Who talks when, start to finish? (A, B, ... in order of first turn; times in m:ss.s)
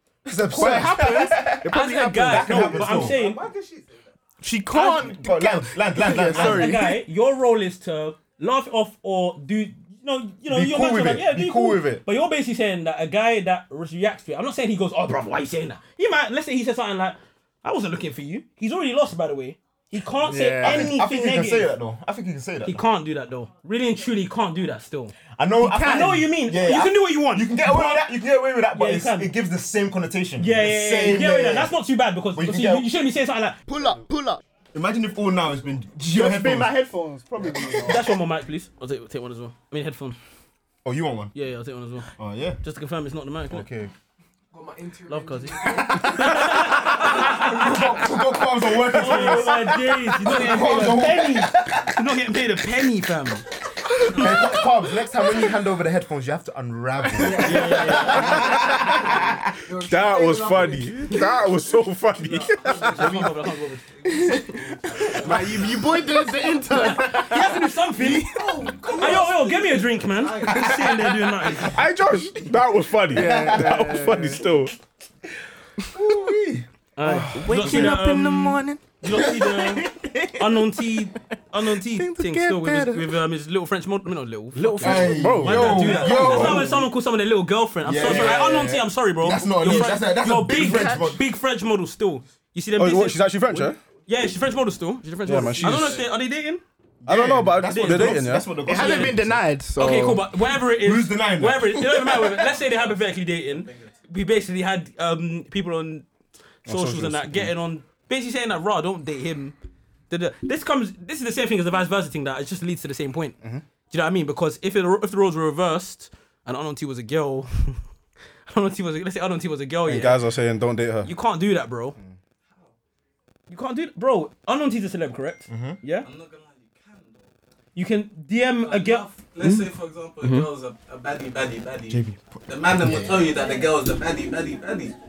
0:00.2-0:03.2 A
0:00.5-0:02.8 B
0:01.7-0:03.4 C
0:02.5-0:03.9 D
0:03.1-0:04.0 E
0:04.4-0:07.0 B
0:04.7-0:05.2 C
0:04.9-0:06.8 A
0:06.3-0:21.7 C
0:10.5-0:12.0 A
0:20.2-0:21.0 B
0:20.6-0:22.8 A
0:22.6-0:25.1 C
0:25.4-0:31.7 A
0:25.6-0:26.3 B
0:25.8-0:28.0 C
0:28.8-0:29.3 C
0:30.4-0:33.6 C
0:32.3-0:32.9 A
0:33.6-0:34.4 B
0:34.7-0:36.7 A
0:36.0-0:38.1 B
0:37.5-0:37.8 A
0:37.8-0:40.2 C
0:40.8-0:41.3 A
0:41.3-0:42.1 C
0:42.2-0:42.6 A
0:42.6-0:43.6 C
0:43.5-0:43.9 A
0:44.5-0:49.4 D
0:45.1-0:47.9 C
0:46.8-0:51.9 A
0:48.9-0:53.4 C
0:54.1-0:54.6 C
0:54.1-0:59.5 A
0:57.2-1:01.3 D
0:57.2-0:58.5 C
0:59.8-1:03.2 F
1:02.2-1:03.2 E
1:02.8-1:03.8 C
1:04.0-1:05.7 E
1:04.0-1:08.7 B
1:06.8-1:08.3 C
1:08.0-1:10.8 D
1:08.9-1:11.8 C
1:09.0-1:09.4 E
1:11.7-1:14.7 F
1:13.1-1:14.4 B
1:13.2-1:13.9 A
1:15.9-1:17.9 A
1:17.0-1:36.6 C
1:17.0-1:21.1 B
1:21.6-1:23.2 B
1:24.6-1:26.6 F
1:24.8-1:26.8 A
1:27.8-1:31.2 A
1:28.0-1:28.8 B
1:30.5-1:31.1 B
1:32.8-1:33.8 F
1:35.2-1:36.0 F
1:35.4-1:36.1 E
1:37.0-1:39.4 A
1:37.0-1:38.5 F
1:37.6-1:39.1 C
1:38.6-1:40.2 B
1:39.8-1:46.1 C
1:40.7-1:42.3 A
1:42.6-1:43.9 E
1:46.6-1:47.5 F
1:46.6-1:49.5 C
1:50.1-1:53.4 C
1:53.9-1:57.8 C
1:58.5-2:00.2 C
1:59.8-2:01.1 F
2:01.0-2:02.0 C
2:03.5-2:06.1 C
2:05.5-2:05.8 A
2:06.0-2:07.3 E
2:07.7-2:09.7 C
2:08.6-2:14.9 E
2:10.2-2:10.5 C
2:11.9-2:13.3 A